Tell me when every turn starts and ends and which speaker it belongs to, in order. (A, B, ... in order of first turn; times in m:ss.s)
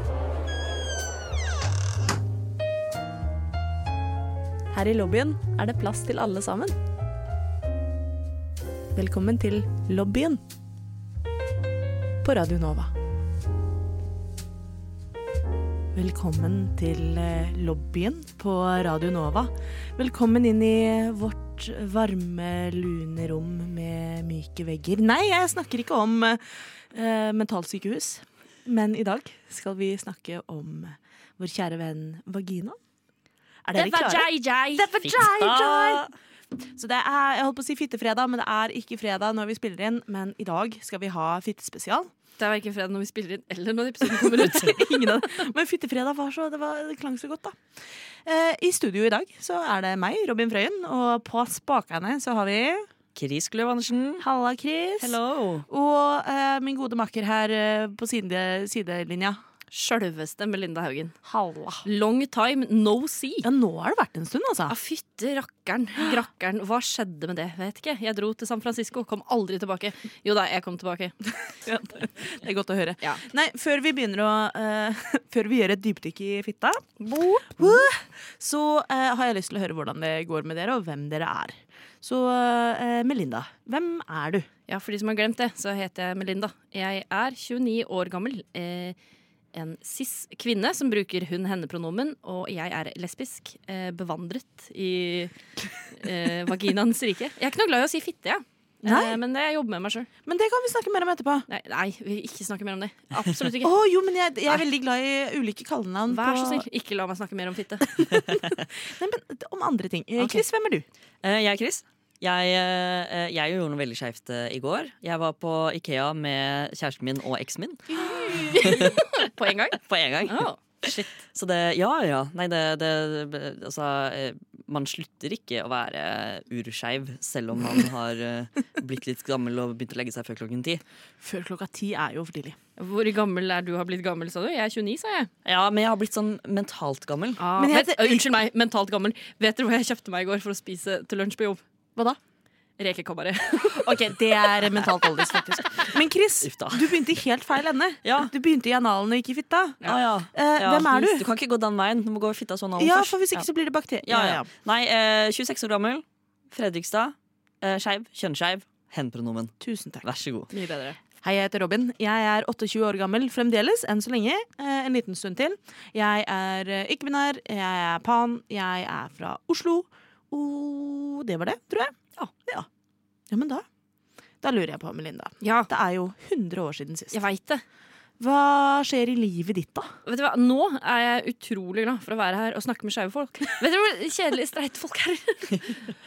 0:04.7-0:06.8 A
0:08.9-0:10.4 A
0:12.2-0:12.9 A
0:15.9-0:32.8 A
0:33.6-0:36.0 A
0:33.8-0:34.9 B
0:35.0-0:36.1 C
0:36.8-0:42.1 A
0:42.4-0:44.9 B
0:44.0-0:47.6 A
0:48.2-0:52.9 A
0:53.2-0:54.2 C
0:54.2-0:55.2 A
0:55.0-0:55.6 C
0:55.7-0:59.4 A
0:59.7-1:01.1 B
1:01.2-1:01.8 A
1:01.8-1:03.5 B
1:03.4-1:04.8 A
1:04.7-1:11.2 B
1:11.6-1:24.5 A
1:17.0-1:17.8 B
1:24.7-1:29.0 B
1:29.5-1:35.3 B
1:35.9-1:40.1 B
1:38.8-1:39.2 A
1:40.2-1:41.4 A
1:41.5-1:43.7 B
1:43.6-1:46.6 A
1:46.1-1:48.0 B
1:48.0-1:50.8 A
1:51.2-1:57.8 C
1:57.9-2:01.1 B
1:58.4-1:59.0 C
1:59.8-2:10.8 C
2:11.2-2:12.6 A
2:12.8-2:15.3 B
2:15.4-2:17.4 C
2:17.4-2:21.6 B
2:17.5-2:18.2 A
2:22.8-2:24.0 B
2:23.7-2:31.3 A
2:26.4-2:26.9 C
2:28.0-2:28.3 C
2:29.8-2:33.4 C
2:32.8-2:34.5 A
2:34.1-2:40.5 C
2:39.6-2:40.0 A
2:40.5-2:41.0 B
2:41.2-2:52.7 A
2:53.3-2:53.6 A
2:54.4-2:57.2 A
2:55.4-2:55.7 B
2:57.1-2:57.6 B
2:58.2-2:59.9 A
3:00.1-3:05.8 B